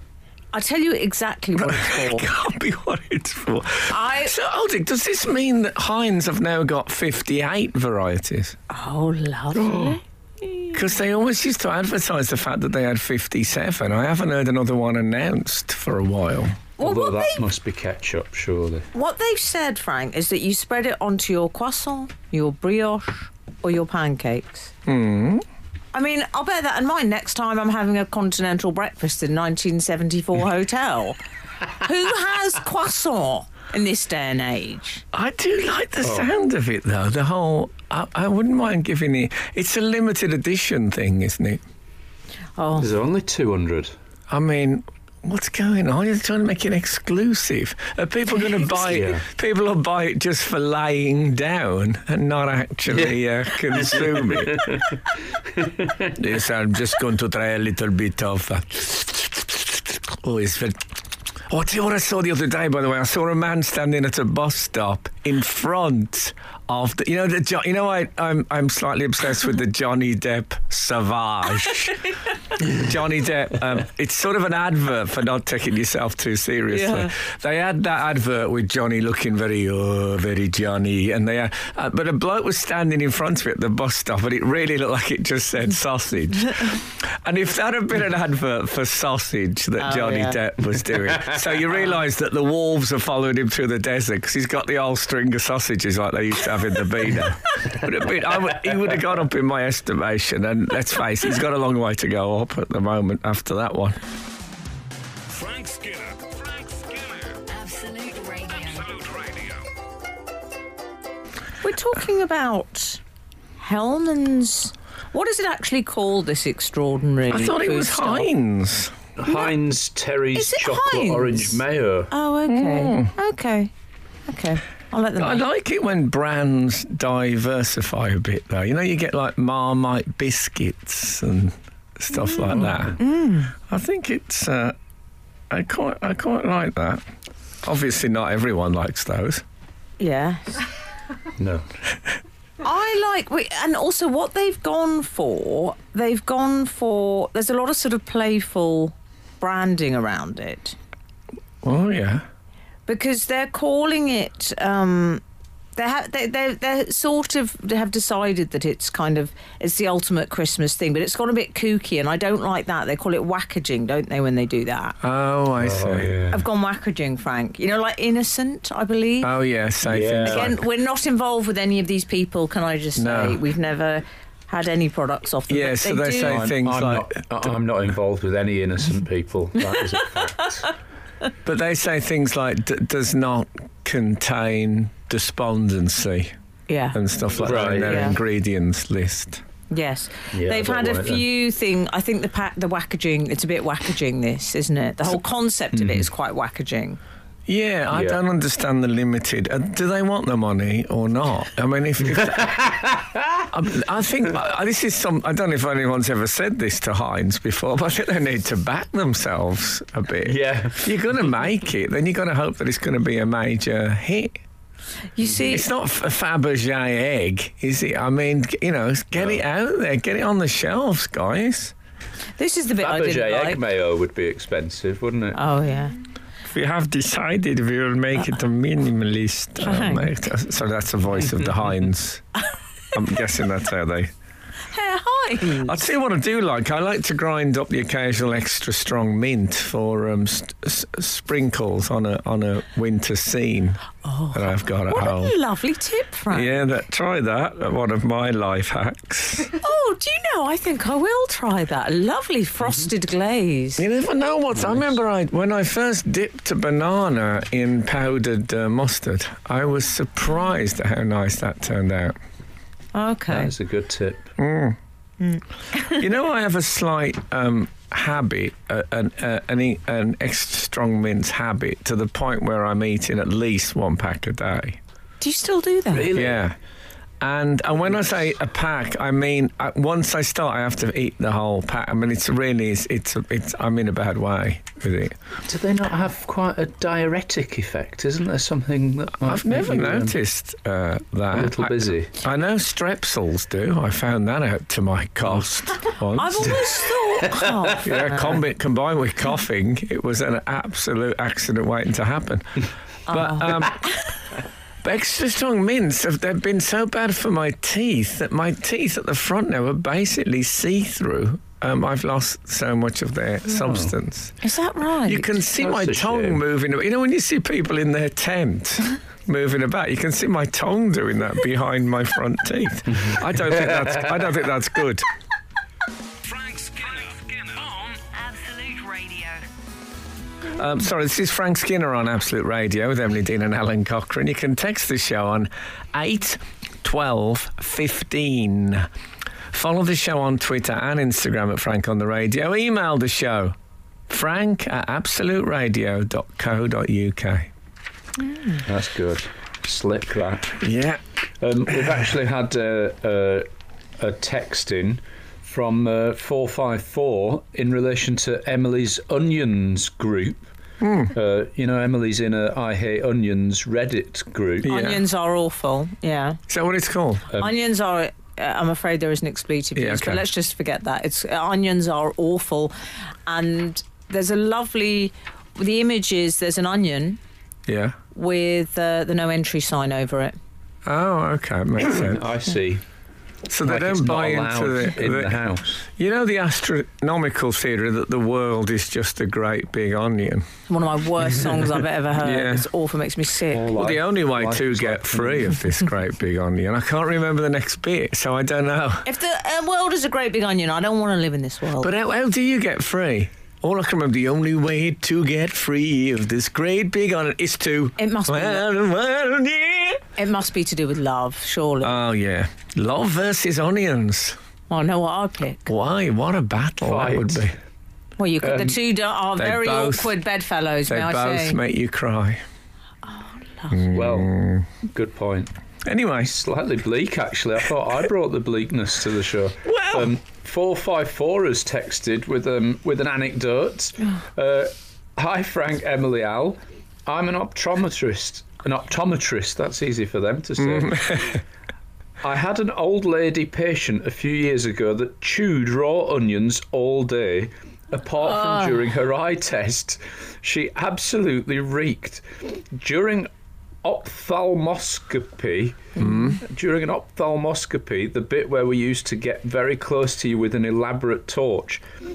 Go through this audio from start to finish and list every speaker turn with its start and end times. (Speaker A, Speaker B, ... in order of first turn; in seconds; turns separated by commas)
Speaker A: 0.5-2.3, Speaker B: 1.6-8.6, Speaker A: 3.9-4.4, Speaker A: 8.7-10.7, Speaker B: 9.5-10.0, Speaker B: 10.7-16.6, Speaker A: 16.8-17.4, Speaker C: 16.8-18.9, Speaker A: 18.9-24.7, Speaker B: 24.9-25.4, Speaker A: 25.9-31.2, Speaker A: 31.8-35.0, Speaker B: 35.1-41.6, Speaker C: 36.0-36.3, Speaker A: 42.6-42.9, Speaker C: 42.8-43.9, Speaker B: 44.3-54.7, Speaker C: 48.8-49.3, Speaker C: 52.9-53.2, Speaker C: 53.7-55.0, Speaker C: 55.6-56.1, Speaker B: 56.2-60.9, Speaker B: 61.5-72.0, Speaker B: 72.7-104.0, Speaker A: 76.7-77.1, Speaker A: 89.8-90.4, Speaker C: 91.0-91.5, Speaker D: 105.3-107.4, Speaker E: 107.5-108.9, Speaker D: 108.5-109.7, Speaker A: 111.6-113.0, Speaker A: 113.6-118.3, Speaker B: 117.3-119.0, Speaker C: 119.2-122.1, Speaker A: 119.3-119.5, Speaker A: 120.3-121.6, Speaker A: 122.1-123.7, Speaker B: 122.5-123.1, Speaker A: 124.3-125.4, Speaker B: 125.2-133.0, Speaker C: 132.6-132.9, Speaker A: 133.0-133.6, Speaker B: 133.6-134.8, Speaker B: 135.5-137.0, Speaker B: 137.6-139.4, Speaker A: 140.0-140.7, Speaker C: 141.4-141.6, Speaker A: 142.6-150.8, Speaker B: 151.6-152.3, Speaker A: 152.9-155.2, Speaker A: 155.8-165.0, Speaker B: 165.0-166.2, Speaker C: 165.6-166.4, Speaker A: 166.3-169.3, Speaker B: 169.2-170.6, Speaker C: 169.9-170.5, Speaker A: 170.2-176.4, Speaker B: 173.0-173.4, Speaker B: 175.5-177.1, Speaker C: 176.3-180.7, Speaker B: 181.4-186.3, Speaker A: 186.7-188.2, Speaker B: 186.9-189.4, Speaker C: 187.4-188.2, Speaker A: 189.7-197.0, Speaker C: 190.3-191.2, Speaker C: 195.7-196.1, Speaker B: 197.5-202.5, Speaker C: 197.9-198.2, Speaker C: 202.2-203.5, Speaker B: 203.5-214.4, Speaker C: 210.2-210.9, Speaker A: 215.2-215.7, Speaker C: 215.2-215.5, Speaker B: 215.5-221.8, Speaker A: 222.4-223.6, Speaker C: 222.8-225.4, Speaker A: 225.3-226.0, Speaker B: 226.5-232.2, Speaker A: 229.6-230.1, Speaker B: 232.9-234.1, Speaker A: 234.7-235.9, Speaker B: 235.6-243.8, Speaker A: 244.0-246.7, Speaker B: 244.3-245.3, Speaker B: 246.3-249.5, Speaker A: 249.6-253.8, Speaker B: 253.8-262.2, Speaker C: 254.6-254.9, Speaker A: 262.9-263.5, Speaker C: 263.3-264.2, Speaker B: 264.4-264.8, Speaker A: 265.2-265.9, Speaker B: 265.8-274.8, Speaker A: 275.2-276.1, Speaker C: 275.9-276.4, Speaker B: 276.1-276.6, Speaker B: 277.2-285.2, Speaker C: 285.5-290.1, Speaker B: 289.2-296.6, Speaker C: 291.3-292.1, Speaker A: 296.1-298.4, Speaker B: 297.8-303.8, Speaker A: 303.1-304.2, Speaker B: 304.8-314.4, Speaker C: 313.5-313.9, Speaker A: 314.4-315.4, Speaker B: 315.1-325.1, Speaker C: 315.6-316.4, Speaker C: 322.9-324.3, Speaker D: 326.2-328.1, Speaker E: 328.1-329.5, Speaker B: 330.5-338.9, Speaker B: 339.5-343.6, Speaker B: 344.1-347.5, Speaker C: 348.6-350.6, Speaker B: 350.6-351.0, Speaker C: 351.4-353.5, Speaker C: 354.0-360.5, Speaker B: 360.8-361.1, Speaker C: 361.1-364.7, Speaker B: 364.6-365.1, Speaker A: 364.7-366.4, Speaker B: 366.5-367.3, Speaker A: 367.4-372.7, Speaker B: 369.8-370.2, Speaker A: 373.3-377.2, Speaker B: 377.7-378.0, Speaker A: 378.1-380.4, Speaker B: 380.9-382.2, Speaker C: 382.0-382.8, Speaker B: 383.5-390.5, Speaker C: 383.6-385.8, Speaker A: 390.7-393.6, Speaker B: 392.2-392.7, Speaker C: 393.5-395.7, Speaker B: 393.7-399.1, Speaker A: 399.1-401.9, Speaker B: 401.8-410.1, Speaker A: 408.0-408.7, Speaker A: 410.2-412.0, Speaker B: 411.8-414.4, Speaker A: 414.7-415.7, Speaker B: 415.7-417.6, Speaker C: 416.8-417.5, Speaker A: 418.2-421.6, Speaker C: 418.4-418.8, Speaker B: 419.4-420.1, Speaker B: 420.9-422.4, Speaker A: 423.0-424.0, Speaker B: 423.7-424.7, Speaker C: 423.9-424.4, Speaker C: 424.9-425.5, Speaker B: 425.9-426.3, Speaker C: 426.2-441.4, Speaker B: 429.6-430.1, Speaker B: 440.6-441.4, Speaker C: 442.2-453.3, Speaker C: 453.8-461.8, Speaker B: 456.0-456.4